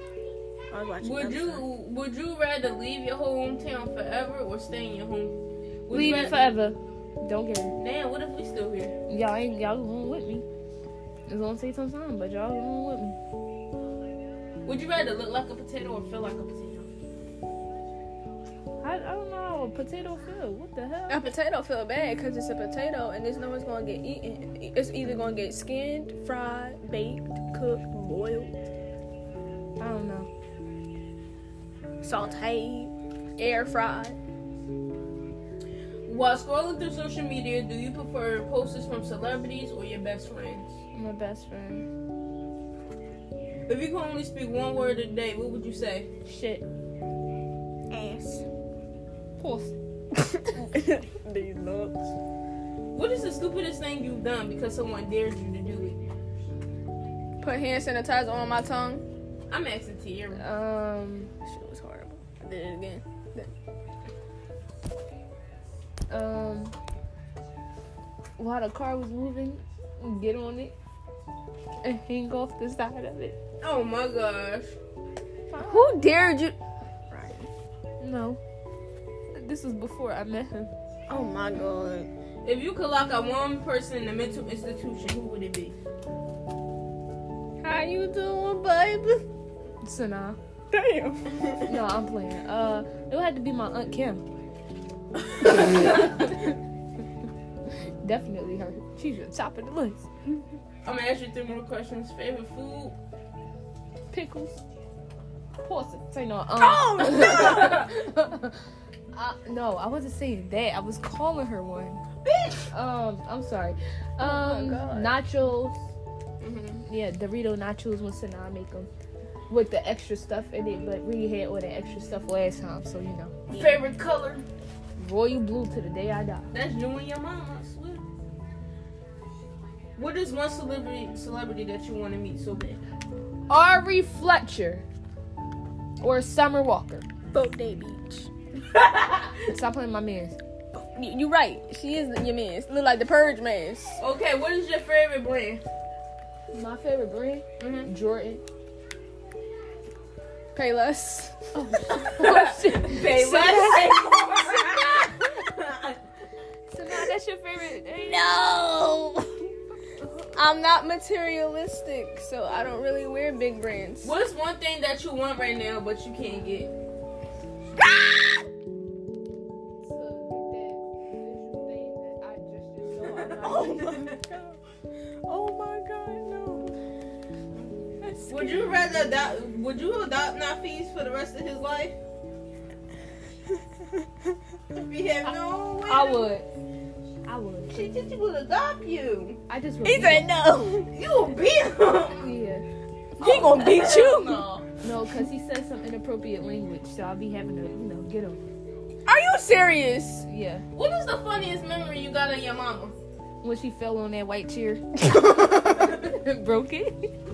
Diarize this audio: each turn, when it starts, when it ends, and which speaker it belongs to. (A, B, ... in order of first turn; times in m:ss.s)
0:00.7-0:01.6 A
0:01.0-0:05.4 B
0:05.9-0:06.4 B
0:05.9-0:07.8 C
0:07.7-0:09.0 B
0:09.1-0:10.5 C
0:11.3-0:13.2 C
0:14.6-0:16.9 B
0:18.8-0:21.2 C
0:21.1-0:28.7 A
0:29.8-0:30.3 C
0:32.0-0:34.2 A
0:36.0-0:40.7 B
0:40.9-0:41.9 C
0:43.7-0:46.1 B
0:46.2-0:46.6 C
0:47.9-0:48.5 A
0:49.4-0:49.7 C
0:50.2-0:52.1 A
0:52.9-0:56.0 B
0:57.4-0:59.0 A
0:59.5-1:00.4 B
1:00.4-1:01.3 C
1:01.5-1:03.5 A
1:06.1-1:06.8 C
1:08.4-1:10.7 C
1:11.8-1:13.4 C
1:13.6-1:14.8 B
1:15.5-1:16.0 C
1:15.6-1:16.6 A
1:17.1-1:17.5 A
1:18.0-1:18.4 C
1:19.3-1:20.7 C
1:21.1-1:22.1 A
1:22.4-1:25.8 B
1:27.6-1:29.2 A
1:29.8-1:30.4 C
1:30.7-1:31.4 A
1:31.6-1:34.2 C
1:35.4-1:36.3 B
1:35.8-1:36.5 C
1:38.0-1:40.1 C
1:40.8-1:43.0 B
1:44.1-1:44.6 C
1:45.6-1:52.0 C
1:46.6-1:47.9 A
1:47.2-1:47.8 B
1:52.2-1:52.7 B
1:52.7-1:55.9 C
1:54.3-1:55.0 A
1:54.6-1:55.0 B
1:56.4-1:56.8 B
1:56.8-1:58.9 C
1:59.5-2:03.5 C
2:03.5-2:04.4 B
2:05.0-2:06.5 C
2:06.5-2:08.0 B
2:10.0-2:12.8 B
2:13.5-2:14.8 C
2:16.0-2:17.1 C
2:17.3-2:18.3 A
2:18.7-2:19.5 B
2:19.5-2:20.4 C
2:20.7-2:24.0 A
2:24.0-2:25.6 B
2:26.5-2:28.4 C
2:27.6-2:27.9 B
2:30.5-2:31.6 A
2:31.5-2:34.1 C
2:31.9-2:36.0 B
2:33.4-2:34.1 A
2:36.7-2:38.4 C
2:38.0-2:39.5 A
2:40.0-2:40.4 C
2:40.3-2:44.2 A
2:44.0-2:46.7 B
2:47.8-2:48.5 A
2:49.8-2:54.1 C
2:53.4-2:54.6 A
2:53.4-2:54.2 B
2:55.2-2:56.8 A
2:58.0-2:58.3 A
2:58.3-3:02.0 B
3:04.8-3:06.3 B
3:05.9-3:06.5 C
3:07.2-3:07.9 C
3:07.7-3:09.4 B
3:09.5-3:10.3 C
3:09.8-3:10.9 A
3:10.9-3:12.3 B
3:12.1-3:12.7 C
3:13.2-3:14.5 A
3:13.2-3:14.7 B
3:14.8-3:18.4 C
3:19.1-3:20.2 A
3:20.3-3:20.6 C
3:20.8-3:23.0 B
3:23.4-3:27.1 C
3:25.2-3:25.5 A